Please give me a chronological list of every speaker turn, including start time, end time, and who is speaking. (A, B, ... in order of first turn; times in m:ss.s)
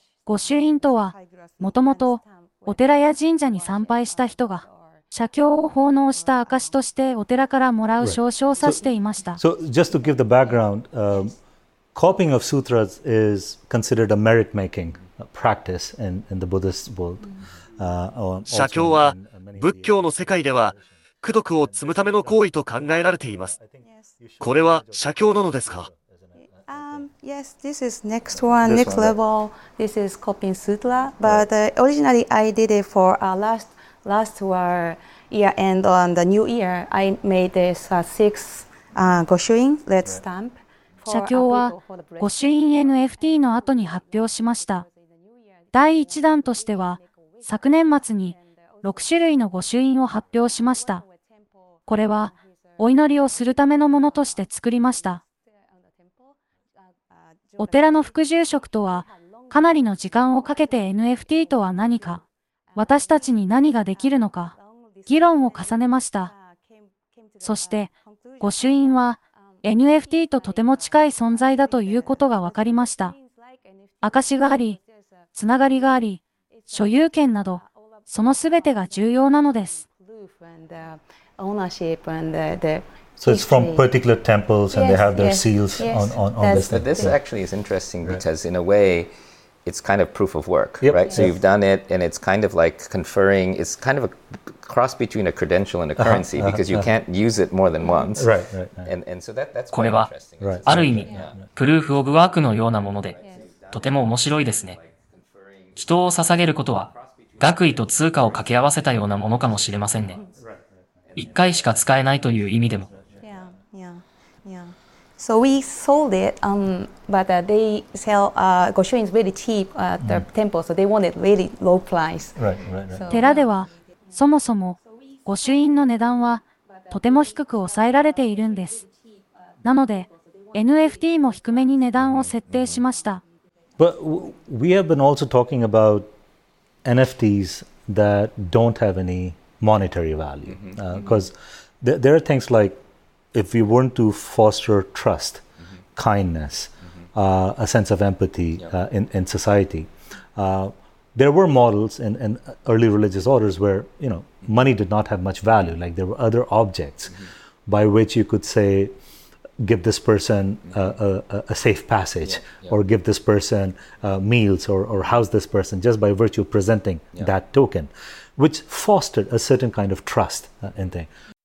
0:00.3-0:09.4 A
0:01.1-0:02.4 B
0:08.0-0:08.8 C
0:09.4-0:11.4 C
0:12.0-0:21.0 C
0:18.5-0:23.6 D
0:21.6-0:27.1 C
0:23.8-0:24.1 B
0:24.4-0:25.9 D
0:26.7-0:42.4 B
0:28.4-0:29.2 C
0:31.2-0:31.5 C
0:41.1-0:44.9 A
0:45.7-0:51.0 A
0:51.9-0:55.2 A
0:57.6-1:02.2 A
1:02.8-1:06.3 A
1:07.4-1:13.2 A
1:14.0-1:14.8 A
1:15.4-1:19.8 A
1:20.0-1:23.9 B
1:23.2-1:27.2 C
1:24.7-1:27.2 B
1:26.7-1:29.1 E
1:29.7-1:34.1 E
1:30.8-1:31.4 C
1:31.0-1:31.3 B
1:34.6-1:38.3 E
1:36.0-1:36.9 C
1:38.1-1:38.9 C
1:38.9-1:41.3 E
1:39.7-1:40.1 F
1:40.4-1:41.5 C
1:40.7-1:43.2 F
1:41.1-1:41.3 B
1:43.2-1:45.8 E
1:43.2-1:43.5 B
1:43.7-1:44.8 F
1:45.8-1:50.2 F
1:47.3-1:50.0 E
1:51.2-1:51.6 E
1:51.2-1:52.9 F
1:53.2-2:03.7 B
2:00.0-2:00.3 C
2:02.4-2:03.0 C
2:03.1-2:08.9 A
2:09.6-2:13.2 A
2:13.8-2:16.1 C
2:16.8-2:22.8 C
2:23.3-2:38.9 C
2:39.6-2:51.1 C